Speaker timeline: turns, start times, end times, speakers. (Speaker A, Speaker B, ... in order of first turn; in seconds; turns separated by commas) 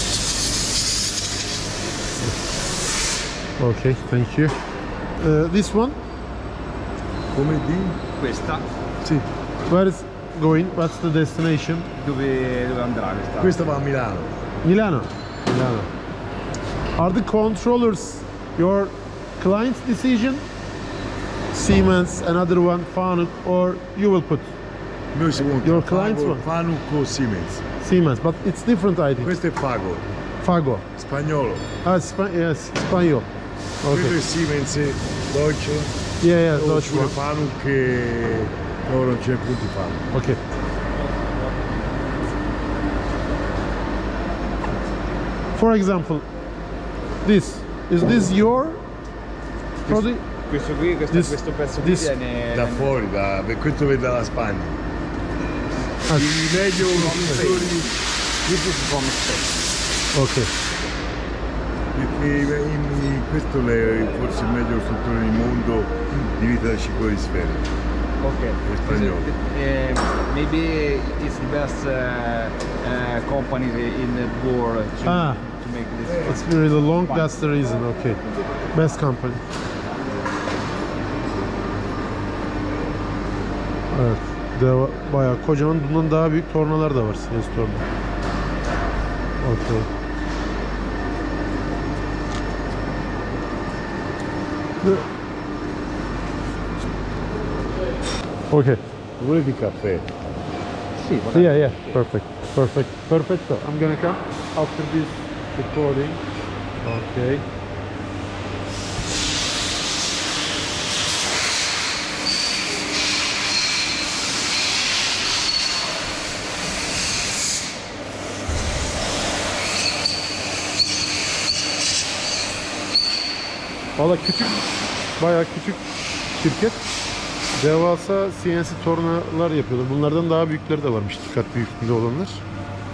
Speaker A: 3.6-4.5, Speaker A: 5.2-6.0, Speaker B: 7.3-8.0, Speaker C: 8.2-8.7, Speaker A: 9.7-11.9, Speaker C: 11.9-13.6, Speaker B: 13.4-14.3, Speaker A: 14.6-15.9, Speaker A: 16.9-20.4, Speaker A: 21.5-24.5, Speaker B: 25.1-27.6, Speaker A: 25.6-26.4, Speaker A: 27.8-29.3, Speaker B: 29.2-30.1, Speaker A: 30.4-30.9, Speaker B: 30.9-31.7, Speaker A: 31.8-33.3, Speaker A: 33.8-34.1, Speaker B: 33.9-36.0, Speaker A: 36.2-37.1, Speaker B: 36.5-40.1, Speaker A: 40.1-40.4, Speaker C: 41.1-41.7, Speaker A: 45.5-46.2, Speaker A: 47.2-48.8, Speaker C: 49.8-52.9, Speaker A: 49.9-50.2, Speaker A: 51.1-52.1, Speaker B: 52.5-54.8, Speaker A: 56.1-57.5, Speaker B: 56.1-57.9, Speaker C: 56.9-57.9, Speaker C: 58.4-59.7, Speaker A: 60.1-60.5, Speaker B: 61.9-67.7, Speaker C: 68.2-77.3, Speaker B: 68.6-69.3, Speaker A: 75.0-75.4, Speaker A: 76.2-78.2, Speaker A: 78.7-79.5, Speaker A: 83.9-87.9, Speaker A: 89.4-89.9, Speaker A: 98.5-98.8, Speaker B: 99.2-100.1, Speaker C: 101.0-102.0, Speaker A: 101.3-106.2, Speaker A: 106.8-107.4, Speaker A: 124.0-124.6, Speaker A: 125.2-126.8, Speaker A: 127.5-132.4